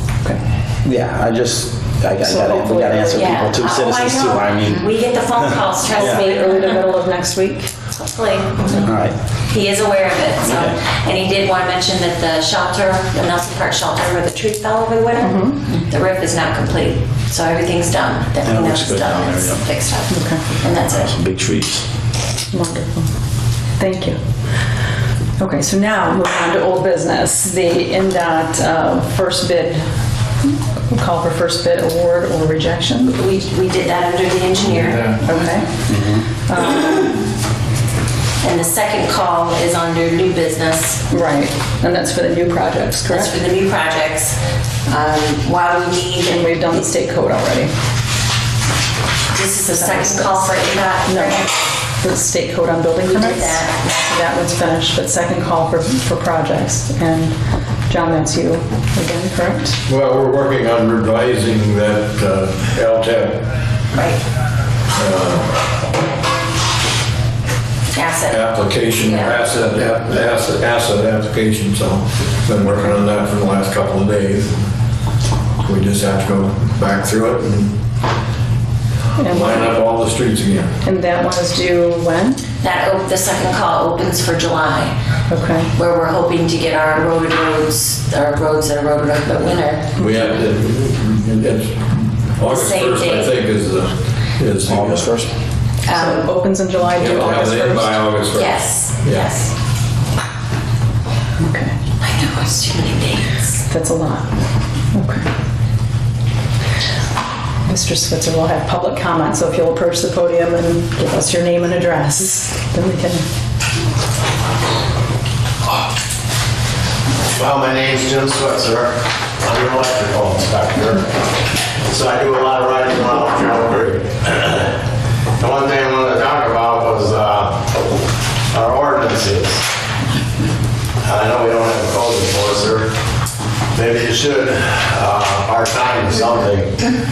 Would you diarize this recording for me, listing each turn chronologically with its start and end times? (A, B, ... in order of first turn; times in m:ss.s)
0:00.8-0:06.2 A
0:02.2-0:03.4 B
0:03.1-0:06.9 C
0:06.0-0:07.7 B
0:08.0-0:08.9 C
0:08.8-0:09.1 A
0:09.5-0:21.1 C
0:10.4-0:10.7 A
0:15.2-0:15.8 B
0:18.5-0:19.6 A
0:20.1-0:20.4 B
0:20.9-0:21.8 A
0:22.5-0:23.1 B
0:23.8-0:24.2 B
0:25.4-0:29.9 B
0:30.9-0:33.2 B
0:33.1-0:35.2 C
0:35.1-0:35.8 B
0:35.9-0:36.2 A
0:36.4-0:37.1 B
0:38.4-0:41.0 C
0:41.1-0:43.3 B
0:43.0-0:46.8 C
0:46.3-0:47.7 B
0:49.3-0:51.5 C
0:49.7-0:51.5 B
0:52.0-0:59.8 B
0:53.0-0:53.8 C
0:59.9-1:03.5 D
1:03.9-1:04.2 C
1:05.0-1:05.6 D
1:07.9-1:09.4 C
1:08.3-1:14.6 D
1:15.6-1:17.7 D
1:19.2-1:19.7 B
1:19.2-1:20.8 D
1:20.8-1:22.4 B
1:22.6-1:24.9 C
1:25.3-1:25.7 B
1:25.7-1:30.1 C
1:30.0-1:35.1 D
1:30.0-1:30.3 B
1:32.5-1:33.3 C
1:34.7-1:35.3 A
1:35.8-1:36.3 C
1:35.9-1:38.0 B
1:36.9-1:39.3 D
1:38.3-1:39.5 C
1:41.4-1:41.8 B
1:42.0-1:43.6 C
1:43.7-1:44.3 B
1:44.9-1:45.3 B
1:47.7-1:53.3 B
1:57.3-2:01.1 E
2:01.9-2:04.8 E
2:05.4-2:07.7 E
2:08.5-2:09.6 E
2:11.0-2:12.9 E
2:13.7-2:16.8 E